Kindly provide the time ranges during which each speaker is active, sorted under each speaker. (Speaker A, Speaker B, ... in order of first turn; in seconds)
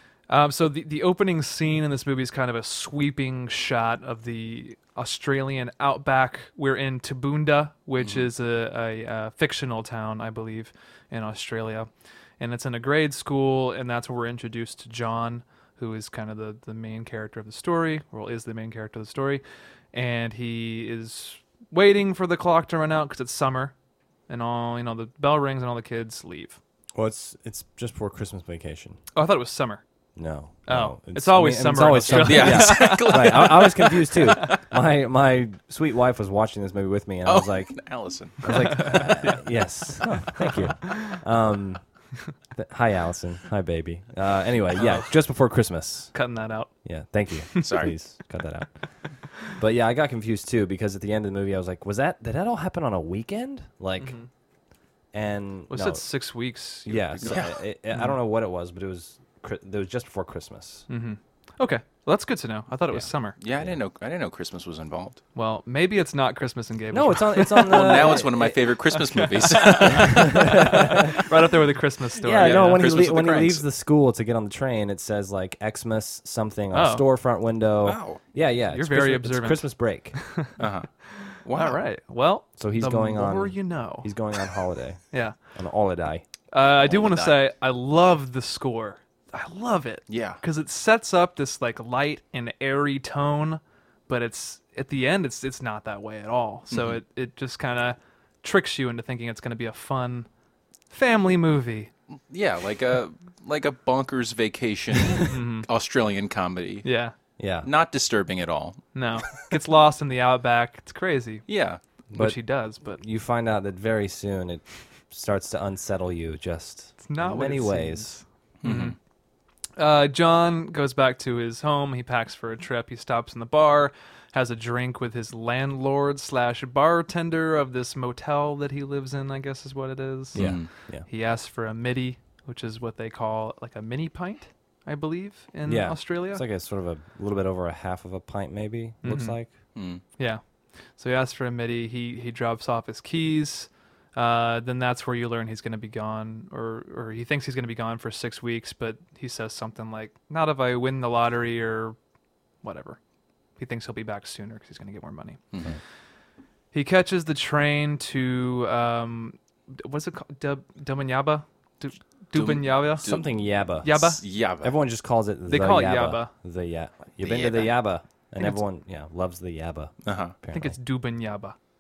Speaker A: 0.3-19.4, 19.9-23.7, 24.3-26.6, 29.1-29.8, 30.6-33.1, 38.8-39.4, 40.3-41.1, 44.8-45.1, 46.1-46.7, 54.0-54.3, 55.7-58.1, 60.9-63.4, 65.3-72.8, 76.7-77.1, 78.7-80.5, 81.2-84.1, 86.5-100.3, 100.9-101.9, 105.3-105.7, 106.8-107.1, 109.0-111.5, 112.1-113.0, 117.0-119.0, 119.8-136.4, 139.0-139.4, 141.0-152.0, 152.6-153.0, 153.6-155.4, 156.7-163.1, 163.8-164.2, 165.5-166.3, 170.5-171.6
Speaker B: 8.0-8.3, 32.1-34.6, 37.2-39.0, 47.6-47.9, 57.2-57.6, 63.4-65.2, 67.7-70.9, 72.4-73.7, 77.8-78.2, 80.6-80.9, 81.4-81.8, 86.6-87.4, 90.1-90.4, 96.7-97.0, 102.3-106.9, 107.6-109.3, 111.5-111.8, 118.6-119.0, 130.4-130.7, 139.8-140.0, 155.5-155.8, 162.3-164.8, 167.2-167.8, 170.1-170.4
Speaker C: 26.9-29.0, 30.2-37.8, 38.4-41.8, 42.5-46.1, 46.9-54.2, 55.1-56.1, 56.9-60.9, 62.9-63.8, 66.9-69.0, 69.7-71.2, 72.2-80.2, 82.6-86.2, 107.4-107.7, 112.1-118.2, 130.3-131.1, 135.7-139.5, 163.0-170.8